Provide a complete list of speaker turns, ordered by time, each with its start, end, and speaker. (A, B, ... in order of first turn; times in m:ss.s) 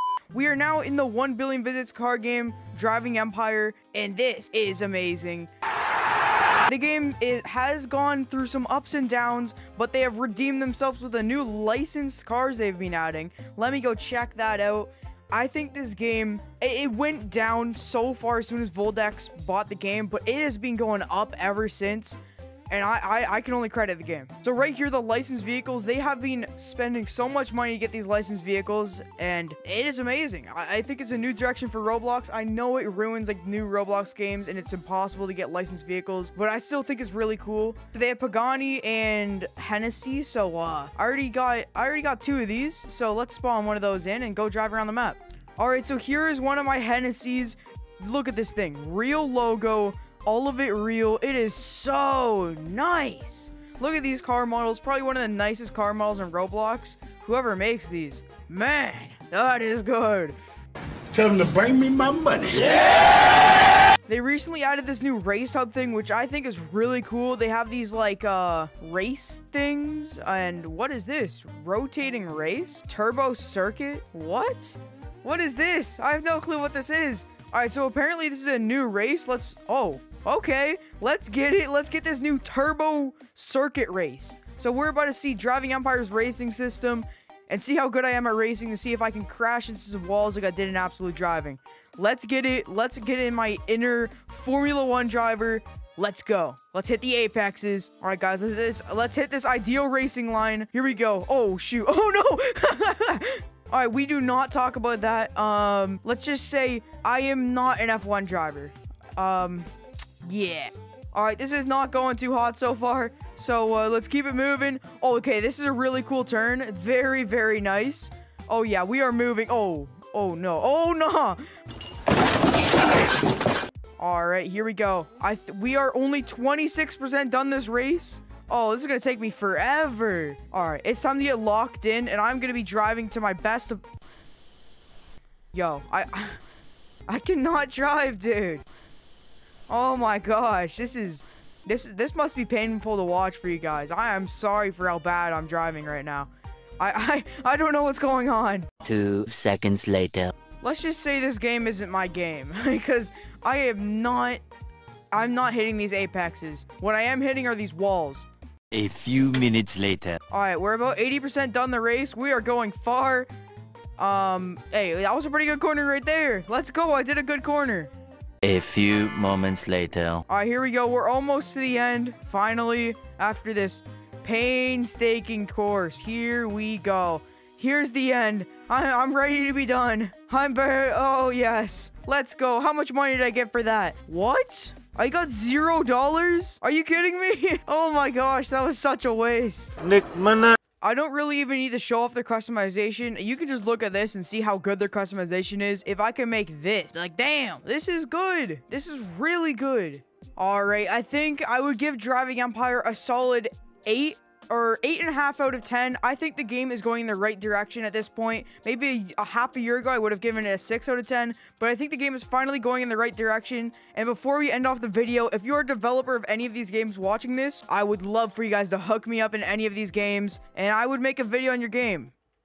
0:00.3-0:05.5 A
0:06.7-0:22.2 A
0:22.7-1:00.4 A
1:01.1-1:03.1 B
1:04.1-1:49.7 A
1:50.2-2:01.4 A
2:04.0-2:13.8 A
2:15.5-2:16.4 A
2:17.1-2:18.6 A
2:19.7-2:28.7 A
2:28.8-2:30.3 C
2:30.6-2:34.4 A
2:35.1-2:38.3 A
2:38.7-2:40.2 C
2:40.3-2:43.3 A
2:44.0-2:47.9 A
2:48.4-2:50.2 C
2:50.3-3:09.8 A
3:09.8-3:10.6 B
3:10.8-3:42.1 A